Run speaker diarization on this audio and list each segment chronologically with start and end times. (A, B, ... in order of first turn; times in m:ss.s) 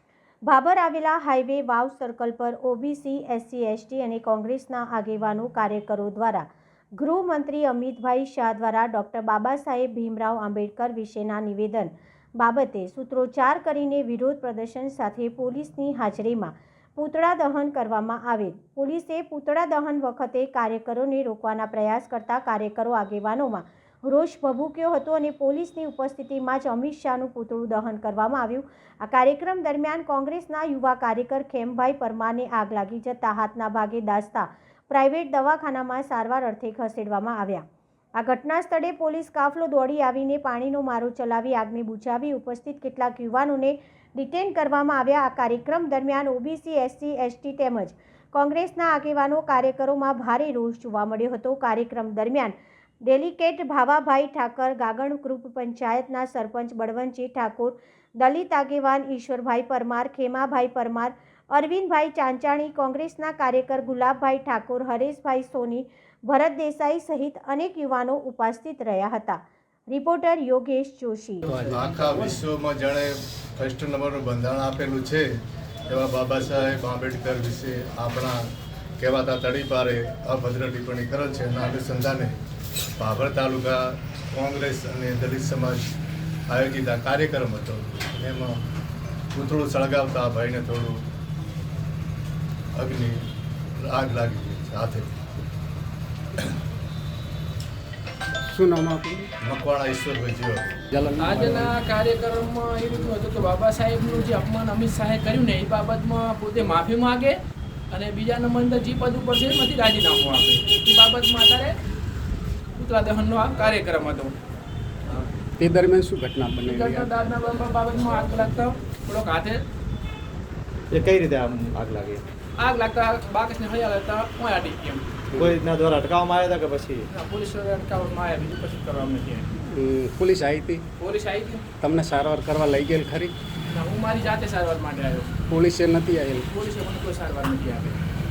0:00.4-0:06.4 A
0:07.0-0:37.6 A
0:38.2-1:11.6 A
1:11.5-1:15.3 B
1:15.9-1:18.4 B
1:19.0-1:22.3 B
1:23.0-1:25.9 B
1:26.5-1:28.6 B
1:29.3-1:31.0 B
1:32.8-1:33.2 B
1:33.8-1:35.1 B
1:38.5-1:39.3 C
1:39.4-1:40.8 B
1:40.9-1:41.7 C
1:41.2-1:47.4 D
1:47.9-1:51.8 D
1:52.8-1:54.3 D
1:55.6-1:57.1 C
1:56.6-1:59.6 D
2:00.9-2:02.2 E
2:02.6-2:05.0 D
2:05.4-2:07.1 E
2:07.1-2:09.5 D
2:09.6-2:10.8 C
2:11.0-2:11.6 D
2:11.8-2:13.3 C
2:13.7-2:15.3 D
2:15.5-2:16.5 C
2:16.5-2:18.0 D